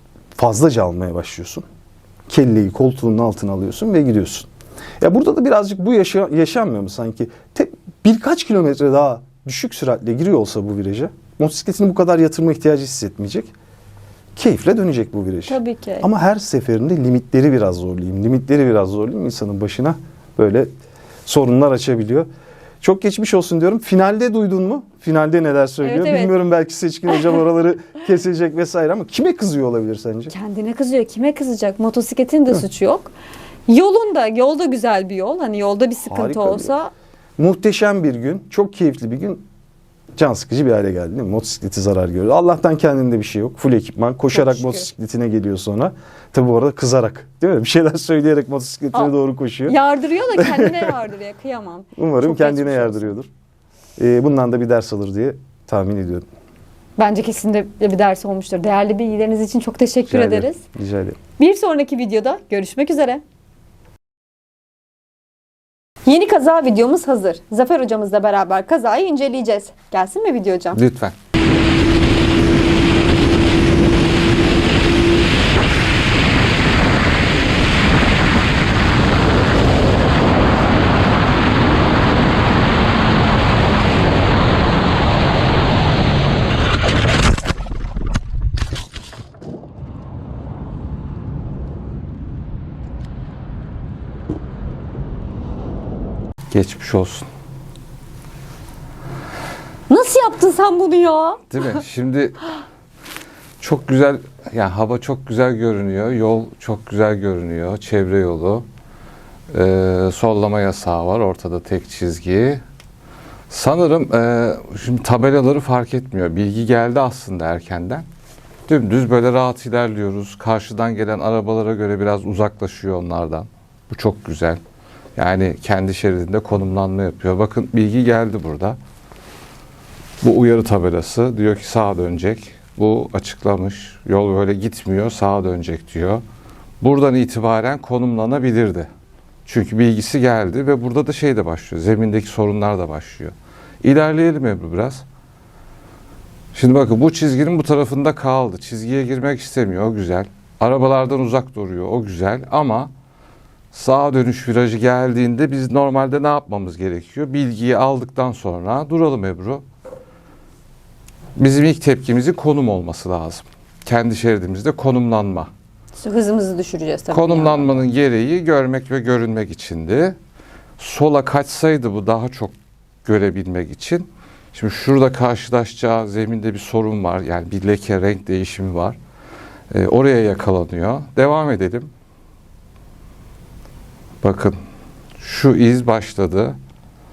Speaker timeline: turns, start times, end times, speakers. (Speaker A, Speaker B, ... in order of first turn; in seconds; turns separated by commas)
Speaker A: 0.4-1.6, Speaker A: 2.3-4.5, Speaker A: 5.0-13.5, Speaker A: 14.4-20.7, Speaker B: 15.5-16.1, Speaker A: 21.2-22.3, Speaker A: 22.8-30.3, Speaker B: 25.8-26.3, Speaker B: 30.3-33.1, Speaker B: 33.7-36.9, Speaker A: 36.0-36.7, Speaker A: 37.4-39.5, Speaker A: 40.1-49.8, Speaker B: 44.3-44.9, Speaker B: 49.7-53.0, Speaker A: 50.4-50.8, Speaker A: 52.0-53.3, Speaker A: 54.0-56.2, Speaker B: 57.0-60.6, Speaker A: 60.1-61.2, Speaker B: 61.4-63.2, Speaker B: 66.0-70.8, Speaker C: 70.7-71.1, Speaker C: 96.5-97.2, Speaker B: 99.9-101.6, Speaker C: 101.5-102.5, Speaker C: 103.6-108.6, Speaker C: 109.5-112.6, Speaker C: 113.5-118.0, Speaker C: 118.7-124.6, Speaker C: 125.2-128.8, Speaker C: 130.2-136.2, Speaker C: 136.8-138.9, Speaker C: 139.4-145.0, Speaker C: 146.5-152.9, Speaker C: 153.7-159.6, Speaker C: 161.4-165.5, Speaker B: 166.0-167.8, Speaker C: 167.1-170.2, Speaker C: 170.8-172.5, Speaker C: 173.0-179.0, Speaker C: 179.7-181.9, Speaker C: 184.2-184.6, Speaker C: 185.2-186.6